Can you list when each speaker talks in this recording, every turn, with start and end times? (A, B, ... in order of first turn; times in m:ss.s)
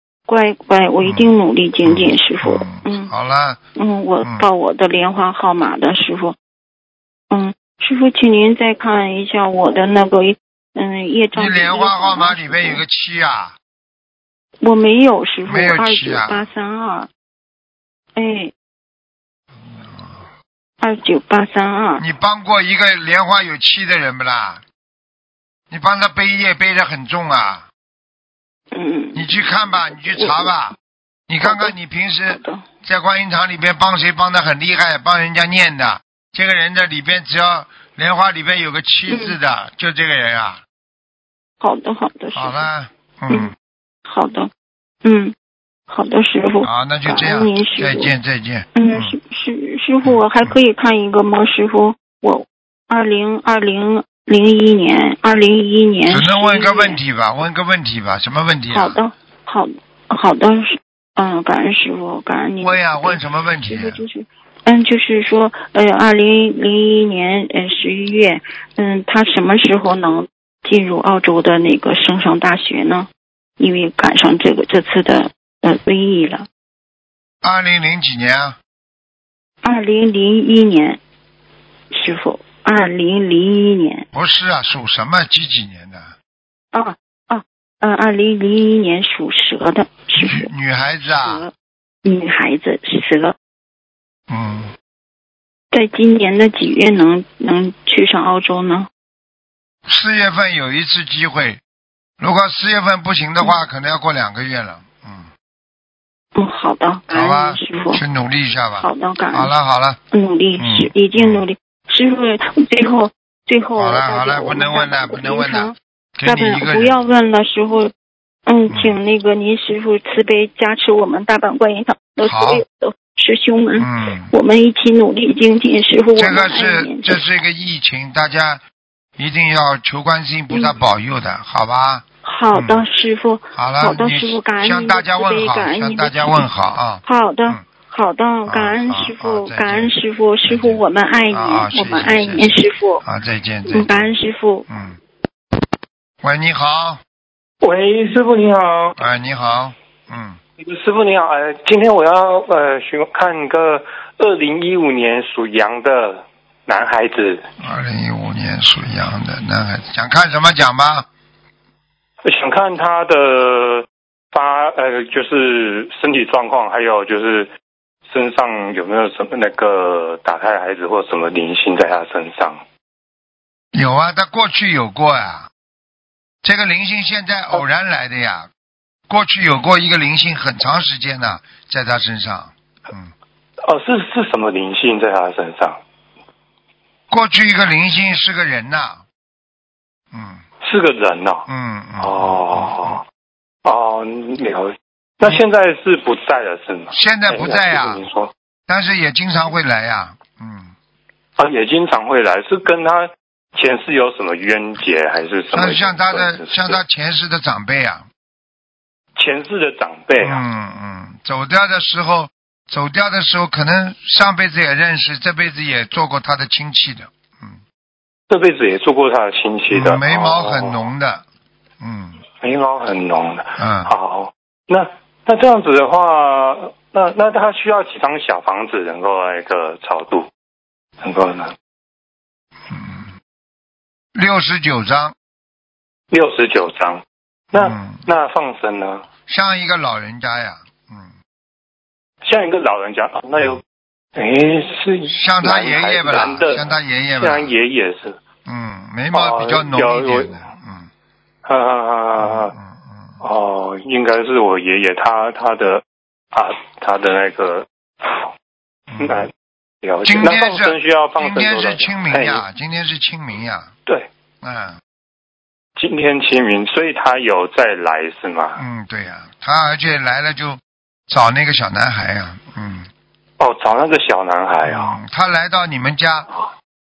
0:00.3-0:03.1 A
0:01.0-0:01.3 B
0:01.8-0:03.6 B
0:03.8-0:06.4 A
0:07.3-0:12.8 A
0:11.3-0:13.5 B
0:14.6-0:17.1 A
0:15.5-0:16.4 B
0:18.1-0:18.5 A
0:19.7-0:20.2 B
0:20.8-0:22.0 A
0:22.0-0:24.6 B
0:25.7-0:27.6 B
0:28.7-0:30.5 A
0:29.1-0:30.7 B
0:31.3-0:40.6 B
0:31.4-0:31.7 A
0:32.3-0:32.6 A
0:39.1-0:39.4 A
0:41.6-0:42.7 A
0:42.3-0:43.5 B
0:44.0-0:44.5 A
0:45.0-0:45.3 A
0:45.9-0:48.1 A
0:46.6-0:49.2 B
0:48.7-0:57.0 A
0:50.0-0:50.5 B
0:56.1-0:59.0 B
0:58.7-1:13.1 A
1:02.6-1:04.0 B
1:13.6-1:16.4 A
1:17.4-1:18.6 B
1:19.6-1:21.0 A
1:21.9-1:24.0 A
1:24.1-1:26.1 B
1:26.7-1:30.5 A
1:30.2-1:31.4 B
1:31.1-1:31.5 A
1:32.0-1:33.3 A
1:34.3-1:34.7 B
1:35.7-1:38.9 A
1:39.8-1:41.6 B
1:42.2-1:45.3 B
1:46.3-1:48.0 A
1:47.1-1:50.0 B
1:48.8-1:49.5 A
1:50.1-1:57.9 A
1:50.6-1:51.4 B
1:53.8-1:57.0 B
1:58.5-2:07.2 A
1:58.7-1:59.0 B
2:02.2-2:02.6 B
2:03.8-2:04.3 B
2:06.2-2:08.6 B
2:09.2-2:12.8 B
2:12.2-2:16.5 A
2:13.5-2:17.6 B
2:17.0-2:23.0 A
2:18.5-2:19.9 B
2:20.5-2:24.1 B
2:23.7-2:24.6 A
2:24.7-2:25.0 B
2:26.2-2:27.0 B
2:27.6-2:29.0 C
2:29.0-2:30.4 B
2:30.6-2:37.4 C
2:37.6-2:41.1 B
2:42.2-2:47.5 C
2:48.1-2:52.6 C
2:53.7-2:55.5 B
2:56.4-2:58.5 B
2:59.1-3:03.1 B
3:03.6-3:05.8 C
3:07.1-3:09.0 B
3:10.1-3:10.4 B
3:10.6-3:11.4 C
3:11.5-3:13.0 B
3:12.0-3:13.0 C
3:13.6-3:18.3 C
3:16.9-3:18.0 B
3:18.7-3:20.7 B
3:21.4-3:26.8 C
3:25.5-3:28.0 B
3:29.2-3:30.4 C
3:30.2-3:37.6 B
3:38.3-3:40.9 C
3:39.7-3:41.2 B
3:41.8-3:42.2 B
3:42.4-3:50.3 C
3:43.6-3:43.9 B
3:51.0-3:51.5 C
3:52.7-3:53.1 B
3:54.1-3:55.1 B
3:56.1-3:59.0 C
3:57.5-3:58.0 B
3:59.3-4:01.1 B
4:02.2-4:03.6 C
4:04.2-4:06.6 C
4:05.1-4:07.5 B
4:07.2-4:08.2 C
4:08.4-4:10.9 B
4:09.1-4:10.3 C
4:11.4-4:12.5 C
4:12.2-4:13.2 B
4:13.2-4:15.8 C
4:16.3-4:18.3 C
4:18.9-4:19.2 B
4:19.0-4:19.3 C
4:19.8-4:22.4 C
4:20.0-4:23.7 B
4:24.4-4:24.8 B
4:25.8-4:28.6 C
4:28.6-4:32.9 B
4:33.4-4:35.0 C
4:34.6-4:36.3 B